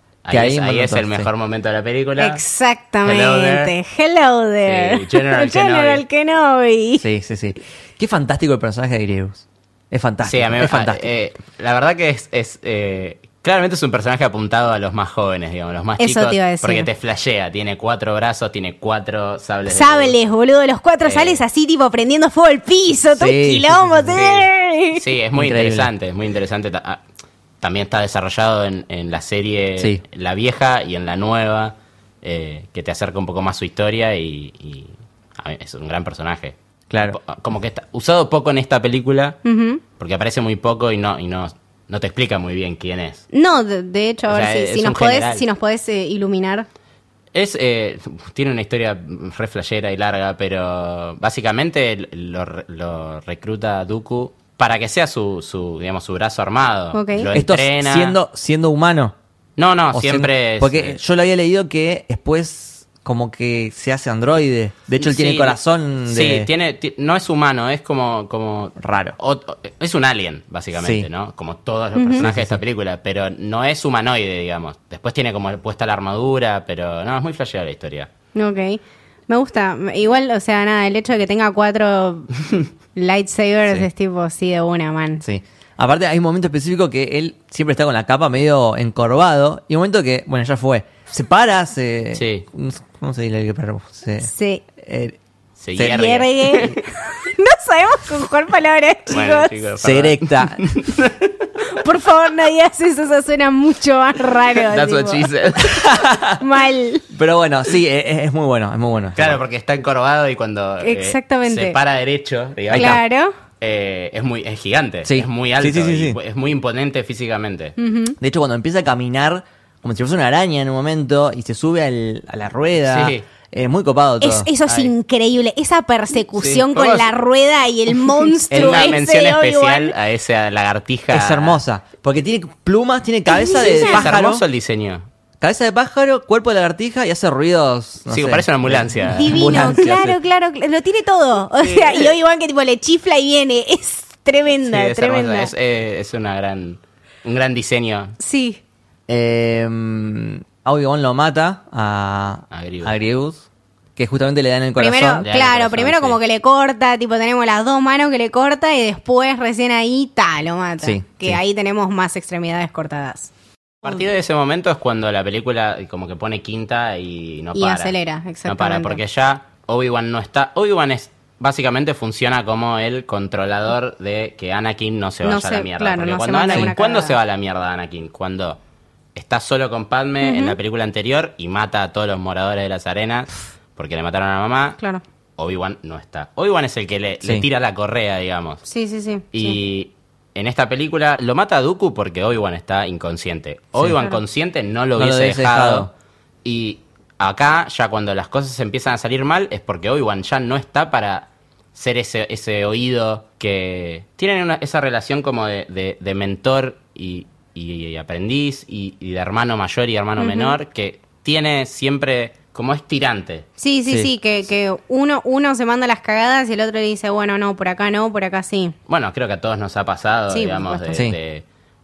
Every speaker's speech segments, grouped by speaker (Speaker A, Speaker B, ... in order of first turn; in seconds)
Speaker A: 0.2-2.4, 3.0-3.7, 4.6-6.0, 10.2-20.1, 21.0-21.4, 24.1-27.0, 27.6-39.4, 40.0-43.2, 44.3-45.4, 47.3-58.1, 59.6-61.0, 65.0-78.1, 92.1-92.4, 95.6-96.8, 99.1-101.5, 104.7-106.0, 109.2-113.0, 113.6-117.8, 122.8-123.2, 124.7-124.9, 126.4-127.1, 128.5-131.6, 133.6-135.0, 138.1-139.9, 141.6-142.1, 144.6-148.2, 152.5-152.9, 155.2-156.2, 163.8-167.9, 168.4-178.6, 179.1-184.8, 185.4-188.6, 189.3-195.9, 196.4-213.5, 218.9-221.4
Speaker B: 0.3-1.3, 7.0-11.1, 23.1-24.1, 25.3-25.9, 36.9-37.2, 57.3-59.1, 59.9-66.5, 68.8-69.2, 70.8-71.1, 72.2-72.6, 85.2-95.2, 95.8-96.0, 99.8-100.7, 105.7-106.4, 107.1-109.4, 112.7-113.0, 115.0-116.2, 118.2-124.5, 131.1-134.4, 135.4-140.2, 149.1-153.4, 153.9-155.2, 160.8-161.4, 195.0-195.9
Speaker C: 2.2-7.0, 16.0-16.9, 19.7-25.0, 39.4-39.8, 43.3-46.7, 56.9-57.3, 72.0-72.2, 78.3-82.3, 82.9-85.2, 94.2-94.6, 95.8-99.5, 101.6-105.3, 106.4-107.0, 110.8-111.8, 112.7-113.3, 117.8-118.2, 124.2-129.9, 133.3-134.1, 139.2-145.5, 148.2-148.6, 154.8-163.3, 167.5-169.0, 175.2-177.1, 180.2-180.6, 188.7-189.6, 210.2-210.6, 213.6-218.8, 220.3-221.1